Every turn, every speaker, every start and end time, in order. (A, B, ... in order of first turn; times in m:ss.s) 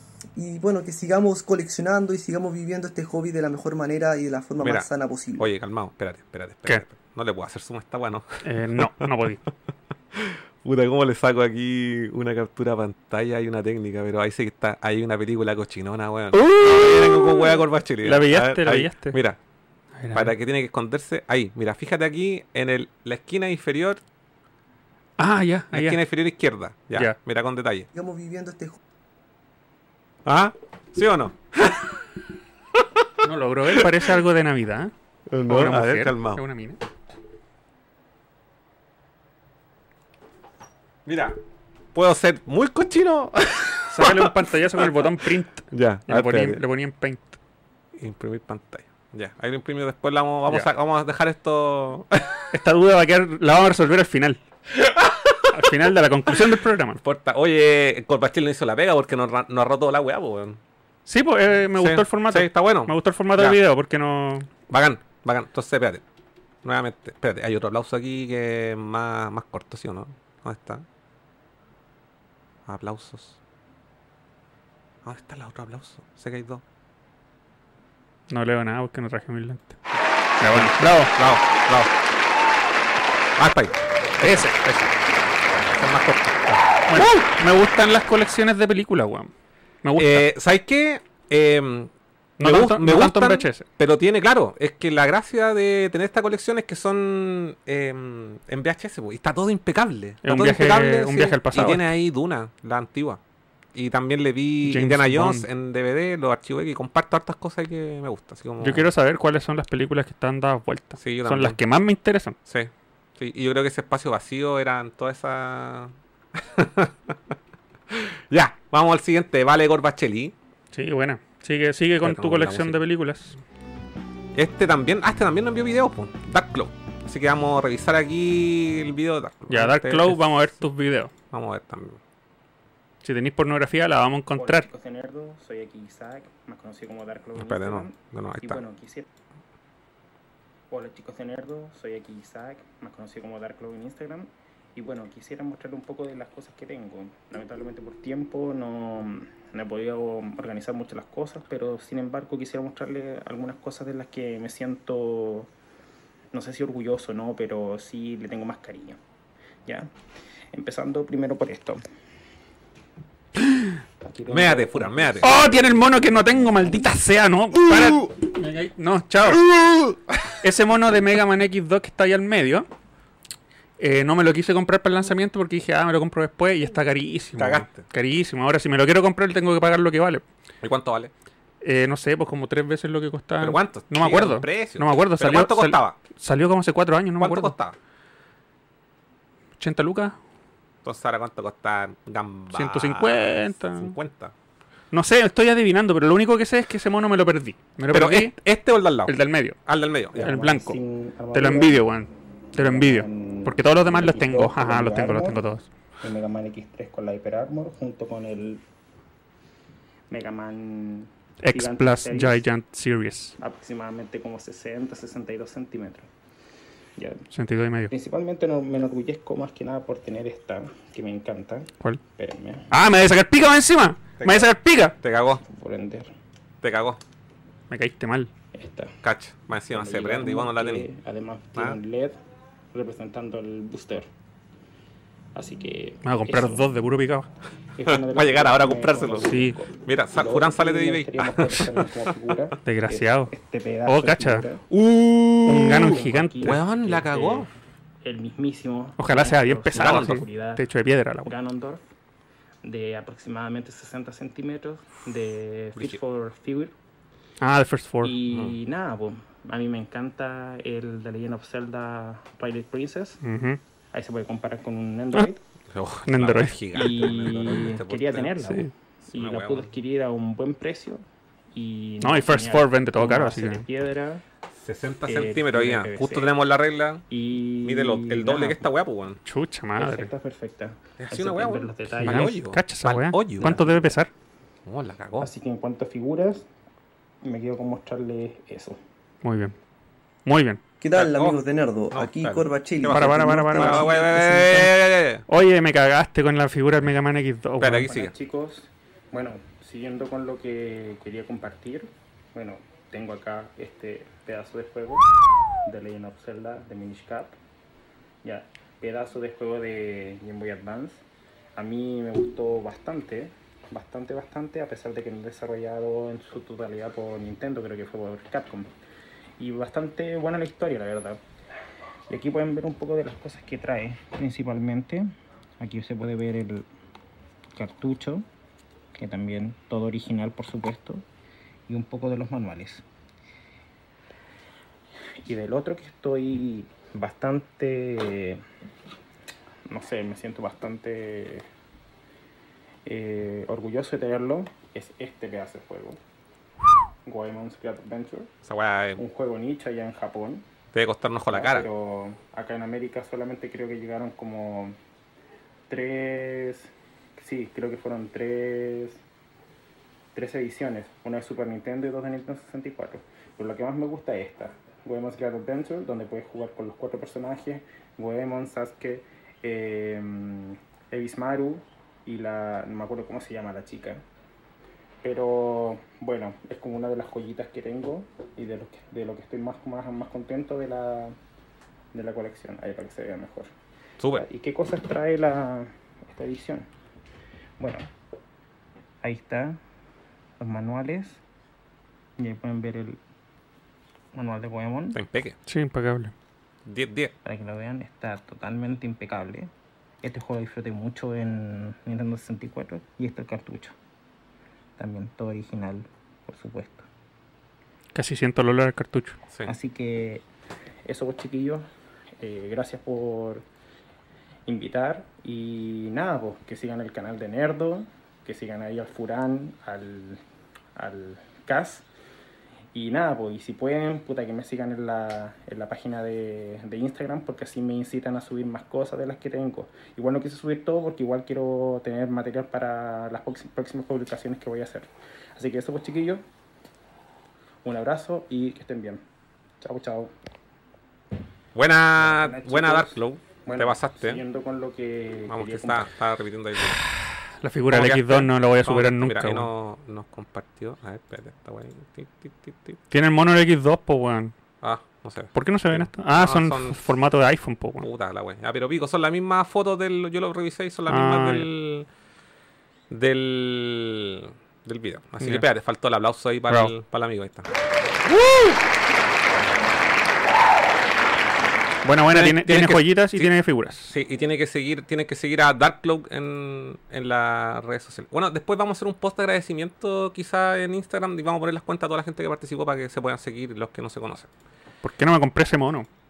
0:00.4-0:05.5 A
0:04.6-0:09.1 B
0:08.4-0:09.4 C
0:10.1-0:19.4 B
0:16.3-0:19.2 C
0:20.0-0:20.3 C
0:20.1-0:24.0 B
0:25.2-0:26.0 C
0:25.7-0:27.9 B
0:27.9-0:28.8 A
0:30.2-0:32.1 B
0:32.7-0:33.1 B
0:33.2-0:34.9 C
0:33.7-0:34.0 B
0:35.3-0:36.4 B
0:35.4-0:36.8 C
0:41.0-0:41.4 B
0:41.9-0:45.1 B
0:43.9-0:47.4 C
0:45.7-0:46.6 B
0:47.9-0:52.5 B
0:52.5-0:54.4 C
0:54.7-0:55.7 B
0:55.5-0:57.0 C
0:56.3-1:00.6 B
1:01.0-1:04.5 C
1:01.7-1:03.6 B
1:04.7-1:06.0 B
1:06.6-1:10.8 B
1:12.6-1:13.4 B
1:15.0-1:16.6 B
1:18.3-1:19.8 C
1:20.4-1:21.1 C
1:20.5-1:21.9 B
1:23.4-1:25.0 B
1:24.2-1:24.5 C
1:25.6-1:27.2 B
1:26.9-1:29.3 C
1:29.8-1:30.3 C
1:30.0-1:43.2 B
1:32.4-1:33.6 C
1:40.2-1:41.9 C
1:43.7-1:48.9 B
1:44.6-1:45.5 C
1:48.6-1:52.4 C
1:51.0-1:51.6 B
1:52.4-1:57.3 B
1:57.9-2:00.3 B
2:00.7-2:03.4 C
2:02.0-2:02.8 B
2:04.3-2:10.6 B
2:09.5-2:11.1 C
2:11.3-2:12.0 B
2:13.0-2:14.7 C
2:14.4-2:19.1 D
2:17.4-2:18.6 B
2:20.7-2:35.5 D
2:36.3-2:39.0 D
2:39.6-2:39.9 D
2:40.5-2:41.8 D
2:44.0-2:46.9 D
2:44.3-2:45.4 B
2:45.2-2:49.5 C
2:47.7-2:47.9 B
2:49.4-2:50.2 B
2:50.4-2:52.7 C
2:53.8-3:00.2 C
2:57.4-2:57.8 B
3:00.6-3:01.1 B
3:01.6-3:07.6 C
3:03.4-3:06.0 B
3:07.2-3:07.8 B
3:09.6-3:10.2 C
3:10.8-3:14.3 B
3:12.5-3:13.9 C
3:14.9-3:18.4 C
3:17.9-3:20.3 B
3:19.0-3:19.6 C
3:20.1-3:21.9 D
3:20.2-3:20.8 C
3:21.3-3:25.7 C
3:22.5-3:25.4 D
3:26.0-3:28.6 D
3:30.1-3:32.4 D
3:31.4-3:33.3 C
3:33.4-3:36.1 D
3:37.0-3:37.2 D
3:37.3-3:37.9 C
3:37.9-3:42.6 D
3:42.7-3:45.0 C
3:44.2-3:45.4 B
3:45.4-3:46.1 D
3:46.6-3:47.0 B
3:47.7-3:48.3 C
3:48.5-3:48.9 D
3:49.0-3:50.9 B
3:49.7-3:52.2 D
3:52.7-3:54.1 D
3:55.3-3:56.7 D
3:56.0-3:57.3 C
3:57.8-4:04.7 D
3:57.8-4:02.4 B
3:59.3-3:59.6 C
4:02.6-4:03.3 C
4:03.8-4:04.4 C
4:04.7-4:07.5 B
4:05.4-4:06.6 C
4:05.6-4:07.5 D
4:08.0-4:10.6 D
4:09.0-4:11.3 C
4:09.7-4:10.2 B
4:11.2-4:11.8 D
4:12.6-4:16.7 D
4:17.4-4:18.2 C
4:18.0-4:23.2 D
4:18.3-4:18.6 B
4:23.2-4:23.6 C
4:23.9-4:25.4 D
4:25.7-4:28.4 B
4:26.1-4:26.9 C
4:26.7-4:31.0 D
4:28.4-4:28.7 C
4:29.1-4:29.7 B
4:31.5-4:34.2 D
4:32.0-4:33.6 C
4:34.6-4:37.0 B
4:35.1-4:36.3 D
4:37.1-4:38.7 D
4:37.6-4:39.2 B
4:39.2-4:40.1 C
4:39.8-4:42.4 D
4:41.0-4:43.6 B
4:42.0-4:44.1 C
4:43.4-4:44.0 D
4:44.6-4:45.3 B
4:45.2-4:46.5 D
4:47.2-4:48.8 D
4:49.2-4:49.5 C
4:50.2-4:50.6 C
4:50.8-4:54.7 A
4:50.9-4:51.4 B
4:51.9-4:55.2 B
4:52.9-4:53.9 C
4:55.3-4:57.9 C
4:57.6-4:58.1 B
4:57.8-5:05.0 D
5:05.6-5:07.4 D
5:08.2-5:11.0 D
5:11.6-5:18.7 D
5:19.4-5:21.2 D
5:22.1-5:26.7 D
5:27.5-5:28.2 D
5:28.9-5:31.0 D
5:31.7-5:32.8 D
5:35.2-5:38.4 D
5:39.7-5:41.4 D
5:42.8-5:46.0 D
5:47.0-5:48.3 D
5:48.4-5:49.0 B
5:49.0-5:50.4 D
5:50.7-5:51.7 B
5:51.3-5:54.8 D
5:55.7-5:59.0 D
6:00.1-6:14.0 D
6:15.0-6:21.2 D
6:21.9-6:23.5 D
6:24.0-6:24.2 B
6:24.1-6:26.7 D
6:27.6-6:27.9 D
6:29.0-6:29.6 D
6:30.4-6:31.2 D
6:32.2-6:33.0 D
6:34.1-6:35.0 D
6:34.9-6:35.4 B
6:35.4-6:36.1 C
6:36.6-6:37.1 B
6:37.2-6:39.5 D
6:40.0-6:43.7 D
6:44.8-6:46.9 D
6:47.9-6:49.2 C
6:49.4-6:50.2 D
6:50.8-6:51.6 D
6:52.2-6:53.4 D
6:54.4-7:00.2 D
7:00.7-7:01.9 D
7:02.7-7:16.2 D
7:17.6-7:19.0 D
7:19.6-7:20.1 D
7:21.5-7:24.2 B
7:22.0-7:25.9 D
7:25.3-7:26.8 B
7:27.4-7:29.5 C
7:27.7-7:32.8 B
7:32.9-7:34.3 C
7:34.6-7:36.9 B
7:35.3-7:37.9 C
7:37.8-7:41.9 B
7:40.9-7:41.5 C
7:42.9-7:47.5 B
7:45.2-7:45.5 C
7:48.2-7:48.5 B
7:51.8-7:53.9 C
7:52.1-7:53.3 B
7:53.9-8:04.3 B
8:04.8-8:05.9 C